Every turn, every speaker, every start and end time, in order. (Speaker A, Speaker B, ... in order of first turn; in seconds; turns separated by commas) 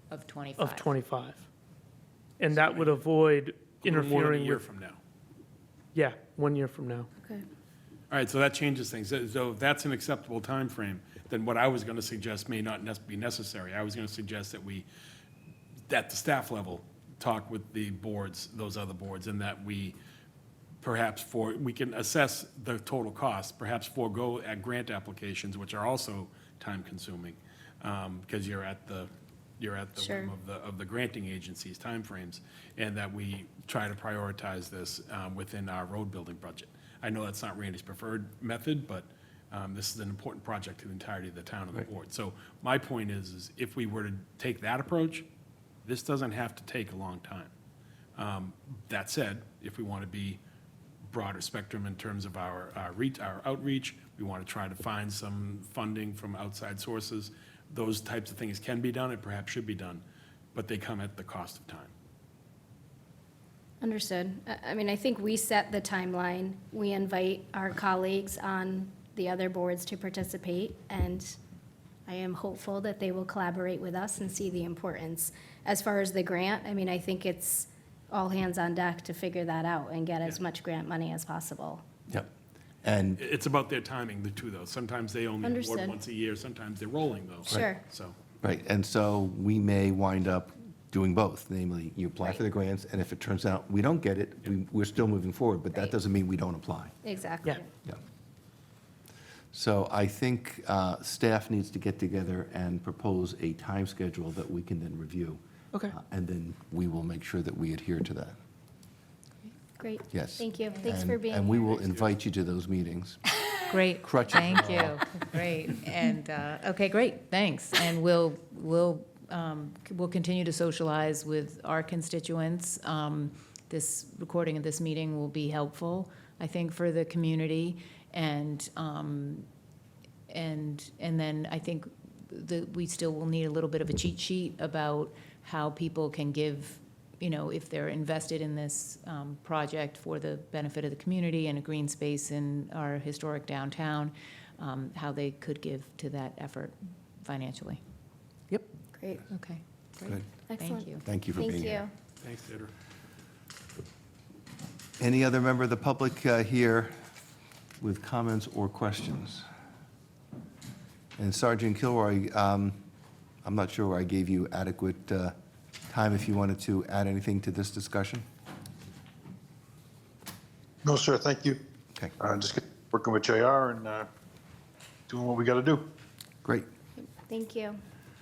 Speaker A: 0.1-0.9, Speaker B: 0.6-1.4, Speaker B: 2.4-4.6, Speaker C: 2.5-3.0, Speaker C: 3.8-5.0, Speaker B: 5.9-7.1, Speaker C: 8.1-14.8, Speaker C: 15.9-19.9, Speaker C: 20.8-45.2, Speaker D: 30.0-30.3, Speaker C: 45.8-47.5, Speaker C: 48.1-50.4, Speaker C: 51.0-61.9, Speaker D: 63.8-71.4, Speaker D: 72.1-81.8, Speaker E: 82.8-83.2, Speaker C: 83.2-88.1, Speaker D: 85.4-86.0, Speaker D: 87.5-87.8, Speaker E: 88.4-96.9, Speaker D: 97.0-97.7, Speaker E: 99.5-108.3, Speaker D: 109.8-111.6, Speaker E: 110.1-113.2, Speaker A: 113.7-129.5, Speaker E: 114.0-115.0, Speaker A: 130.3-147.8, Speaker D: 148.9-149.2, Speaker A: 149.3-151.0, Speaker D: 150.5-151.9, Speaker E: 151.0-151.8, Speaker C: 152.2-152.7, Speaker E: 155.0-156.9, Speaker E: 157.8-159.4, Speaker E: 161.2-162.8, Speaker E: 163.4-165.3, Speaker E: 165.9-168.2, Speaker F: 170.8-171.6, Speaker F: 172.2-174.1, Speaker F: 175.1-175.8, Speaker D: 177.0-177.8